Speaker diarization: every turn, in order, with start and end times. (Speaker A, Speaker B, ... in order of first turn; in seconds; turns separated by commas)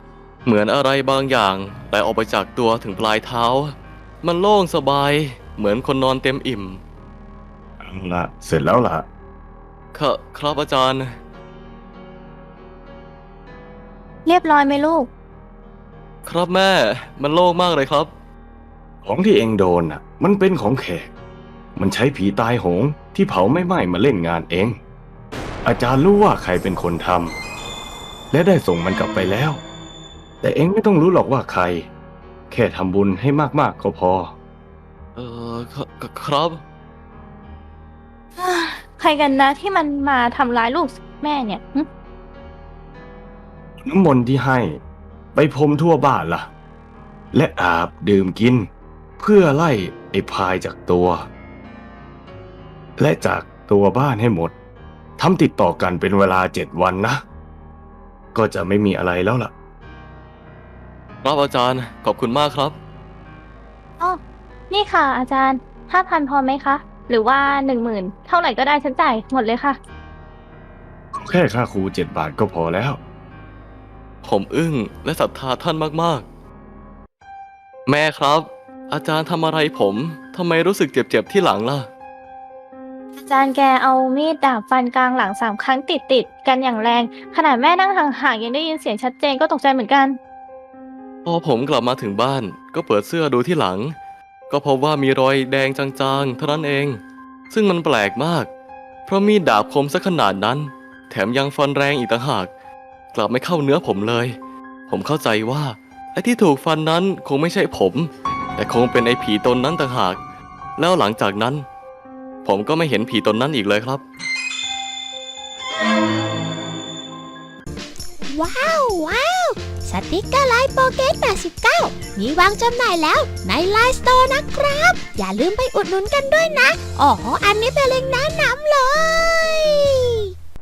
Speaker A: 0.5-6.8, Speaker B: 7.8-9.1, Speaker A: 9.9-11.1, Speaker C: 14.3-15.1, Speaker A: 16.3-18.1, Speaker B: 19.0-21.1, Speaker B: 21.8-24.8, Speaker B: 25.6-27.4, Speaker B: 28.3-29.6, Speaker B: 30.4-31.9, Speaker B: 32.5-34.3, Speaker A: 35.2-36.6, Speaker C: 38.4-41.9, Speaker B: 43.8-44.8, Speaker B: 45.4-46.5, Speaker B: 47.3-48.7, Speaker B: 49.2-51.3, Speaker B: 53.0-54.5, Speaker B: 55.2-57.2, Speaker B: 58.4-59.5, Speaker A: 61.2-62.8, Speaker C: 64.7-69.8, Speaker B: 71.1-73.0, Speaker A: 74.2-76.2, Speaker A: 77.9-81.9, Speaker C: 83.2-90.2, Speaker A: 91.2-93.9, Speaker A: 94.5-98.5, Speaker A: 99.1-102.5, Speaker A: 103.1-104.4, Speaker A: 104.9-110.2, Speaker A: 110.8-111.7, Speaker A: 112.4-114.0, Speaker D: 118.3-130.0